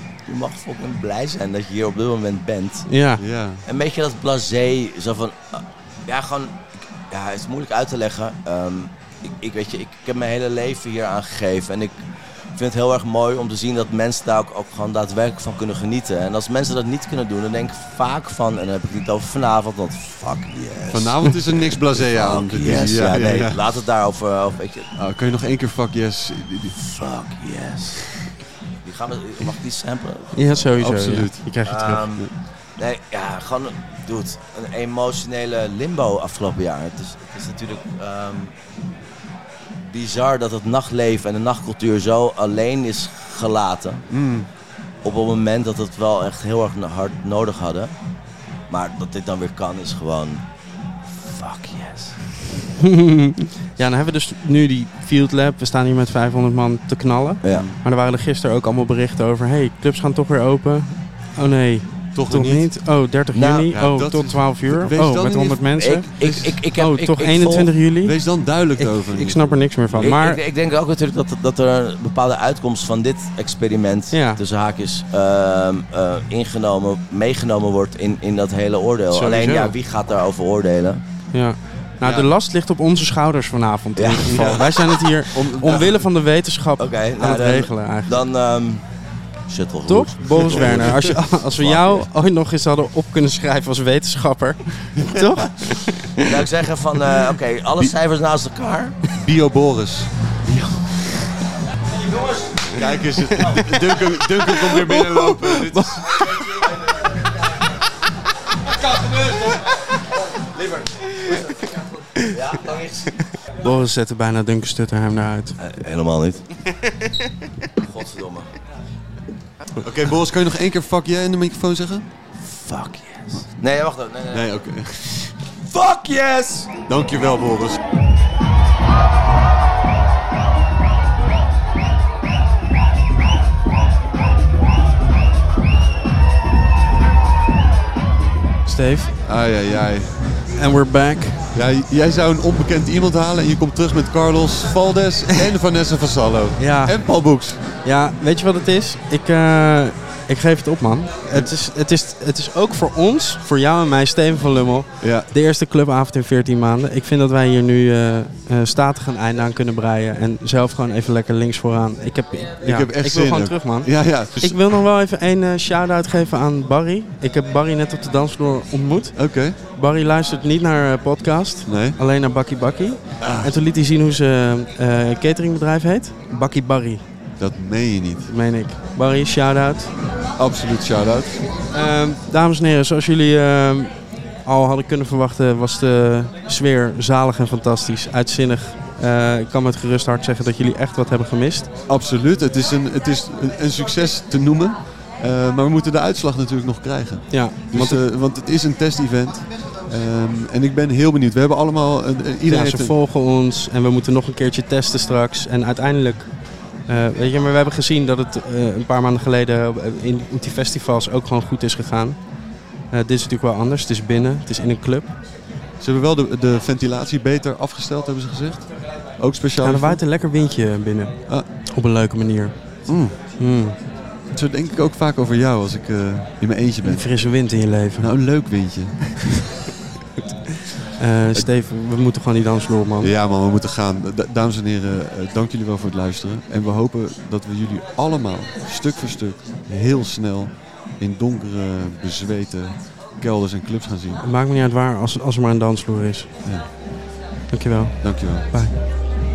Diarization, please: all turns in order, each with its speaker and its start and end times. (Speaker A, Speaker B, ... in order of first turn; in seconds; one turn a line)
Speaker A: 0.2-2.9
Speaker B: 2.9-3.2
Speaker C: 3.2-3.6
Speaker A: 3.7-12.0
Speaker A: 12.5-21.2
Speaker C: 20.9-23.6
Speaker A: 21.7-24.9
Speaker C: 24.9-26.8
Speaker A: 26.8-28.0
Speaker A: 28.8-30.7
Speaker B: 30.3-32.0
Speaker C: 30.8-31.6
Speaker A: 31.6-32.2
Speaker A: 32.8-38.5
Speaker A: 39.8-44.0
Speaker C: 44.1-44.5
Speaker A: 45.0-47.9
Speaker A: 48.7-50.4
Speaker A: 51.1-52.1
Speaker B: 52.8-68.1
Speaker A: 57.4-57.7
Speaker C: 57.5-57.8
Speaker C: 62.1-62.6
Speaker A: 63.3-63.7
Speaker C: 63.7-66.5
Speaker A: 65.8-67.7
Speaker C: 68.0-70.2
Speaker B: 68.8-70.4
Speaker A: 70.0-81.0
Speaker B: 74.1-74.4
Speaker B: 79.1-79.7
Speaker B: 81.3-88.2
Speaker A: 84.0-84.9
Speaker C: 84.2-84.6
Speaker C: 85.3-85.8
Speaker A: 86.8-88.8
Speaker A: 89.5-90.8
Speaker B: 89.9-96.3
Speaker C: 90.3-91.2
Speaker A: 91.5-92.0
Speaker C: 95.0-95.7
Speaker A: 96.2-99.0
Speaker C: 99.1-100.8
Speaker A: 102.4-102.8
Speaker C: 102.7-106.2
Speaker B: 103.3-103.6
Speaker B: 104.5-106.0
Speaker A: 108.8-109.5
Speaker A: 110.4-110.9
Speaker A: 112.3-113.2
Speaker B: 113.6-115.6
Speaker A: 115.6-116.4
Speaker A: 117.8-118.5
Speaker C: 119.8-122.0
Speaker A: 122.4-124.5
Speaker C: 124.3-125.3
Speaker A: 125.7-126.7
Speaker C: 126.8-127.8
Speaker B: 138.7-139.1
Speaker C: 139.2-140.1
Speaker B: 140.6-141.4
Speaker C: 141.5-147.6
Speaker B: 146.6-146.9
Speaker B: 147.8-177.0
Speaker C: 155.0-155.3
Speaker C: 162.6-164.6
Speaker C: 169.2-169.6
Speaker C: 171.7-172.0
Speaker C: 173.2-173.5
Speaker C: 177.4-178.3
Speaker B: 178.2-179.9
Speaker C: 180.4-181.4
Speaker B: 181.7-183.9
Speaker B: 184.4-191.7
Speaker C: 191.9-202.9
Speaker B: 197.3-198.0
Speaker B: 202.5-206.3
Speaker B: 206.9-212.2
Speaker B: 212.9-215.1
Speaker C: 215.8-220.0
Speaker B: 219.6-221.2
Speaker B: 221.7-222.5
Speaker C: 222.9-223.2
Speaker B: 223.4-223.8
Speaker C: 224.3-227.1
Speaker B: 226.8-228.1
Speaker C: 228.0-229.4
Speaker B: 231.0-233.1
Speaker C: 233.0-244.2
Speaker B: 244.2-246.3
Speaker B: 247.5-248.7
Speaker C: 248.0-248.5